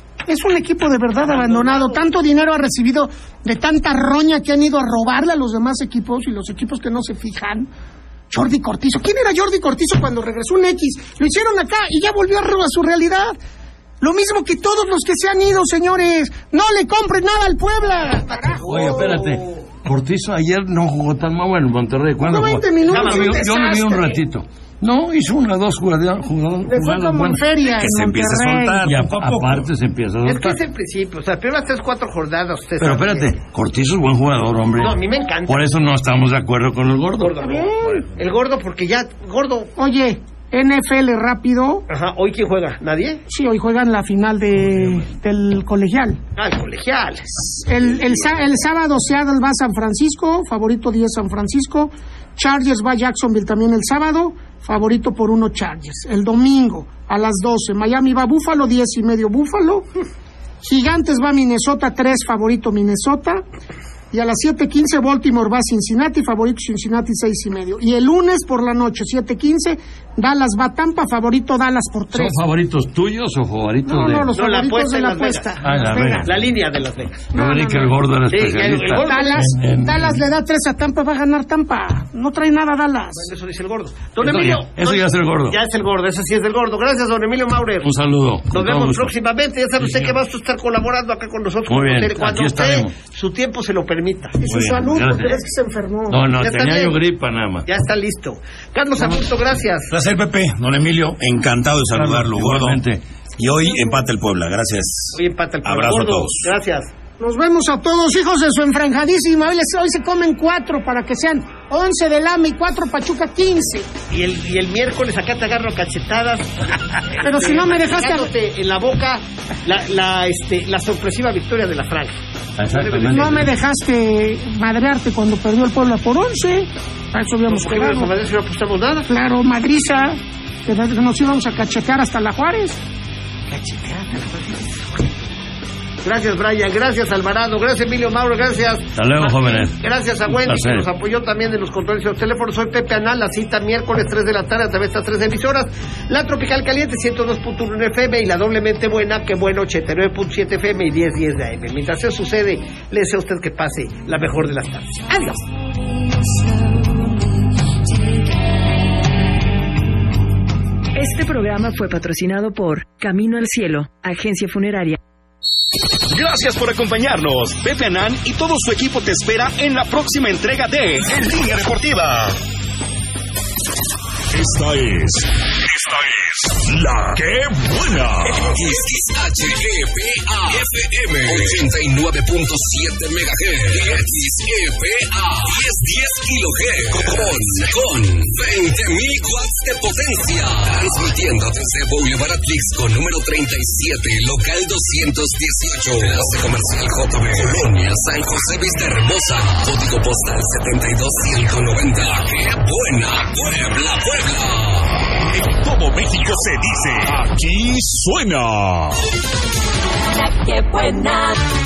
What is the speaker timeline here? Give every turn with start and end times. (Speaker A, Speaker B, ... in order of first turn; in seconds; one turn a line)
Speaker A: 0.3-7.7
Speaker B: 1.2-2.0
Speaker A: 8.3-13.4
Speaker A: 14.0-18.6
Speaker B: 18.1-19.5
Speaker C: 18.6-27.4
Speaker A: 22.2-24.2
Speaker B: 22.9-23.5
Speaker A: 26.6-28.9
Speaker D: 27.6-29.7
Speaker C: 28.8-30.6
Speaker B: 30.2-33.3
Speaker C: 32.8-37.3
Speaker B: 34.8-35.7
Speaker B: 37.2-39.7
Speaker A: 37.4-38.0
Speaker A: 39.8-41.9
Speaker B: 41.9-43.2
Speaker A: 43.3-46.2
Speaker B: 46.4-47.5
Speaker A: 47.6-59.9
Speaker A: 60.6-63.4
Speaker A: 64.1-72.3
Speaker C: 72.1-74.3
Speaker A: 73.9-76.4
Speaker B: 74.3-75.6
Speaker C: 75.6-76.3
Speaker B: 76.2-77.3
Speaker A: 77.3-78.0
Speaker C: 77.3-80.2
Speaker B: 78.3-79.5
Speaker A: 79.0-83.3
Speaker B: 83.2-87.9
Speaker C: 84.2-85.6
Speaker C: 87.8-89.1
Speaker B: 88.5-94.4
Speaker C: 89.8-90.2
Speaker C: 91.7-92.9
Speaker A: 94.4-96.2
Speaker C: 94.5-95.4
Speaker C: 96.1-97.7
Speaker B: 96.4-97.0
Speaker B: 97.7-99.9
Speaker D: 99.9-102.8
Speaker C: 102.0-103.0
Speaker D: 103.4-106.5
Speaker B: 105.1-106.9
Speaker A: 107.2-113.9
Speaker B: 114.1-123.4
Speaker A: 117.2-118.3
Speaker C: 122.6-123.5
Speaker A: 123.1-128.1
Speaker B: 127.5-129.1
Speaker A: 129.1-132.8
Speaker B: 133.5-134.6
Speaker B: 136.0-155.4
Speaker C: 138.9-140.9
Speaker E: 160.9-165.0
Speaker F: 166.1-172.4
Speaker G: 174.3-178.5
Speaker F: 178.3-178.8
Speaker H: 178.4-205.0
Speaker F: 180.5-181.7
Speaker F: 183.7-184.2
Speaker F: 186.9-187.7
Speaker F: 196.0-196.4
Speaker F: 197.3-197.6
Speaker G: 205.3-209.1
Speaker H: 210.2-211.4